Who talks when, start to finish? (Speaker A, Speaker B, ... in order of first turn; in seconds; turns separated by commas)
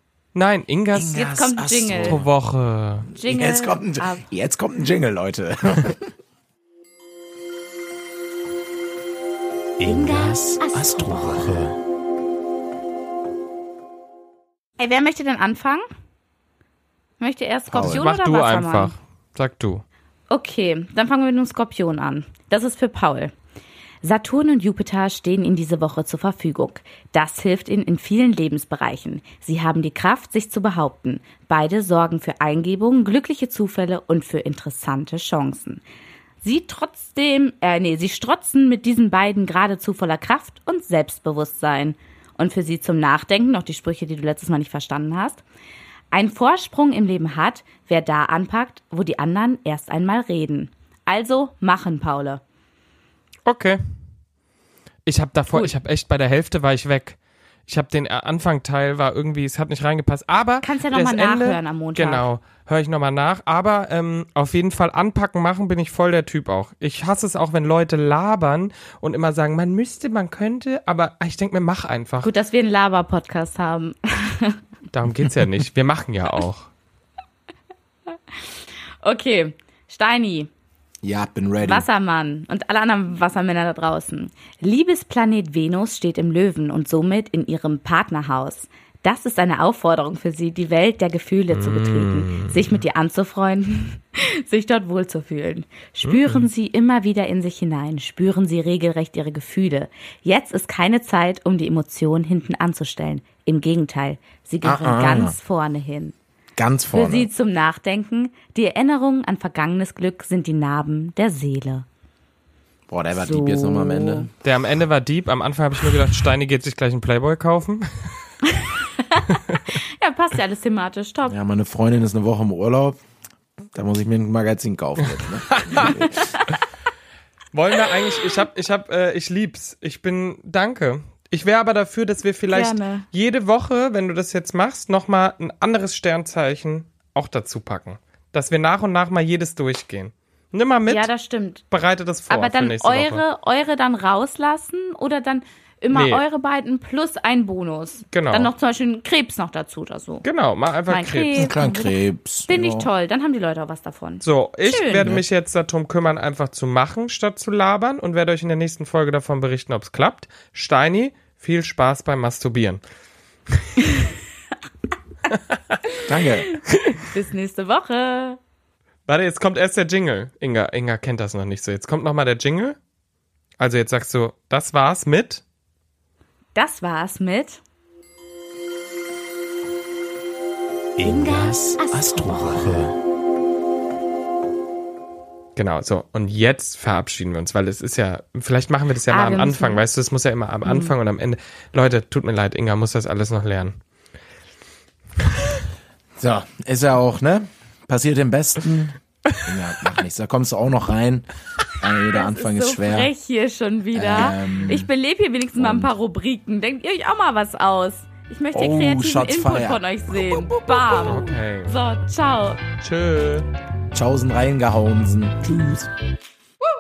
Speaker A: 0.3-1.2, Speaker B: 0.9-2.2, Speaker C: 1.1-2.2, Speaker A: 2.0-3.1, Speaker C: 3.1-4.2, Speaker B: 3.2-6.0, Speaker C: 9.8-11.5, Speaker B: 9.8-11.8, Speaker C: 14.8-15.8, Speaker C: 17.2-18.9, Speaker B: 17.7-18.1, Speaker A: 17.8-19.8, Speaker C: 20.3-23.3, Speaker C: 24.0-35.8, Speaker C: 36.4-45.4, Speaker C: 46.1-52.4, Speaker A: 53.5-53.8, Speaker A: 55.1-72.3, Speaker C: 60.6-62.3, Speaker C: 72.2-74.6, Speaker A: 74.9-76.7, Speaker C: 79.0-80.5, Speaker B: 81.0-81.9, Speaker C: 81.6-106.2, Speaker A: 91.5-92.8, Speaker A: 96.0-96.5, Speaker B: 104.6-105.3, Speaker B: 106.6-107.3, Speaker C: 106.9-111.9, Speaker B: 112.9-114.3, Speaker C: 113.1-114.3, Speaker A: 114.4-118.1, Speaker C: 118.5-121.4, Speaker B: 121.3-123.0, Speaker B: 123.7-126.4, Speaker A: 125.2-126.0, Speaker A: 127.5-141.1, Speaker C: 132.5-133.1, Speaker C: 140.9-141.6, Speaker A: 141.7-143.2, Speaker C: 142.3-150.2, Speaker A: 145.9-146.2, Speaker A: 148.1-148.5, Speaker A: 150.2-151.5, Speaker C: 150.9-155.2, Speaker B: 151.4-152.9, Speaker A: 154.2-162.8, Speaker A: 163.5-163.8, Speaker A: 165.3-165.8, Speaker B: 166.0-166.6, Speaker A: 166.7-167.0, Speaker C: 167.1-168.4, Speaker A: 169.1-172.8, Speaker A: 173.6-175.4, Speaker C: 176.6-177.6, Speaker C: 181.0-182.8, Speaker B: 181.0-182.9, Speaker A: 185.6-193.8, Speaker C: 189.1-189.8, Speaker C: 190.7-190.9, Speaker B: 196.2-203.1, Speaker C: 202.1-212.7, Speaker B: 203.9-204.9, Speaker B: 205.6-205.9, Speaker B: 208.5-211.0, Speaker A: 211.0-211.7, Speaker A: 212.8-213.5, Speaker B: 213.9-215.9